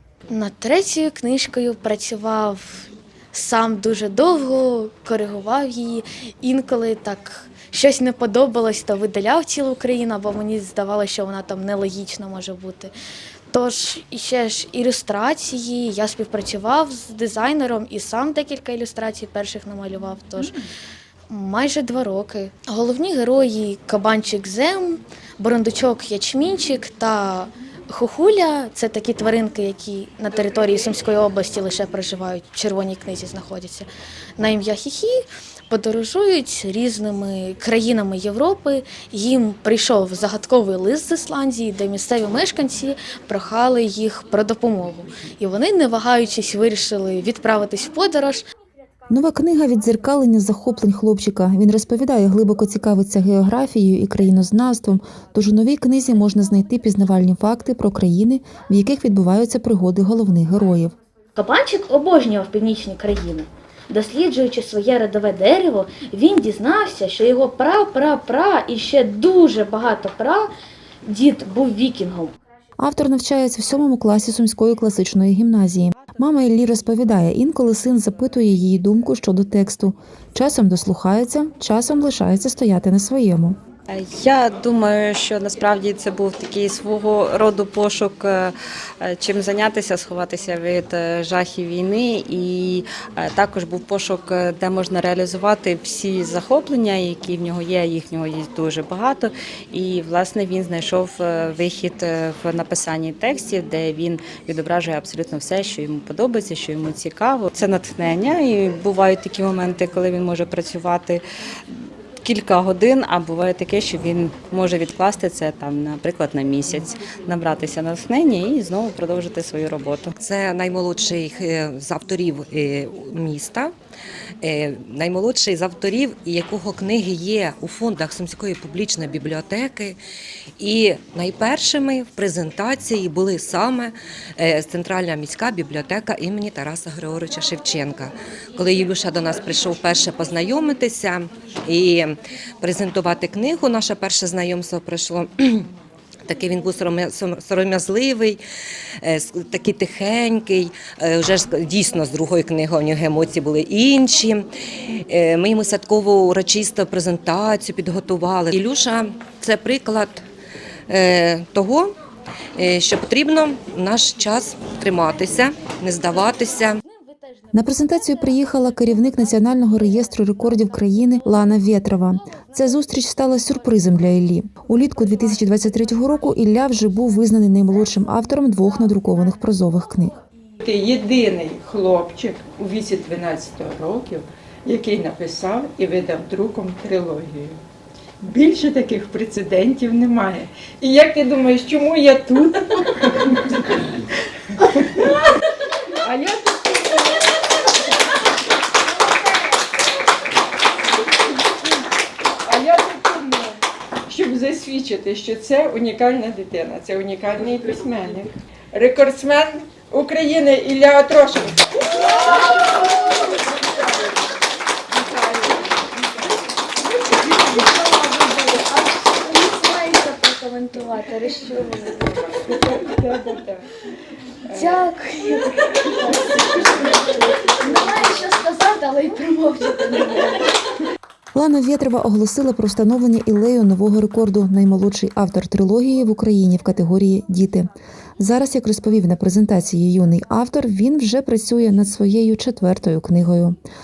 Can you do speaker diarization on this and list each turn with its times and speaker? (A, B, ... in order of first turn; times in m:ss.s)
0:00.3-0:12.9 A
0:13.5-0:20.6 A
0:21.3-0:48.4 A
0:49.1-1:00.9 B
1:01.3-1:10.5 A
1:11.0-1:12.4 A
1:12.8-1:23.6 B
1:23.9-2:00.1 C
2:00.2-2:03.7 D
2:04.4-2:10.0 D
2:10.6-2:25.7 D
2:26.2-2:28.4 D
2:29.0-2:40.2 D
2:40.9-2:41.9 D
2:42.6-2:46.8 D
2:47.5-3:00.2 B
3:00.6-3:07.6 E
3:08.2-3:13.8 E
3:14.6-3:15.2 E
3:16.0-3:17.3 E
3:22.4-3:31.9 E
3:32.0-3:33.4 A
3:34.9-3:36.4 E
3:37.2-3:42.3 A
3:42.4-3:43.7 E
3:44.5-3:44.8 E
3:44.5-3:50.4 A
3:51.3-4:03.6 B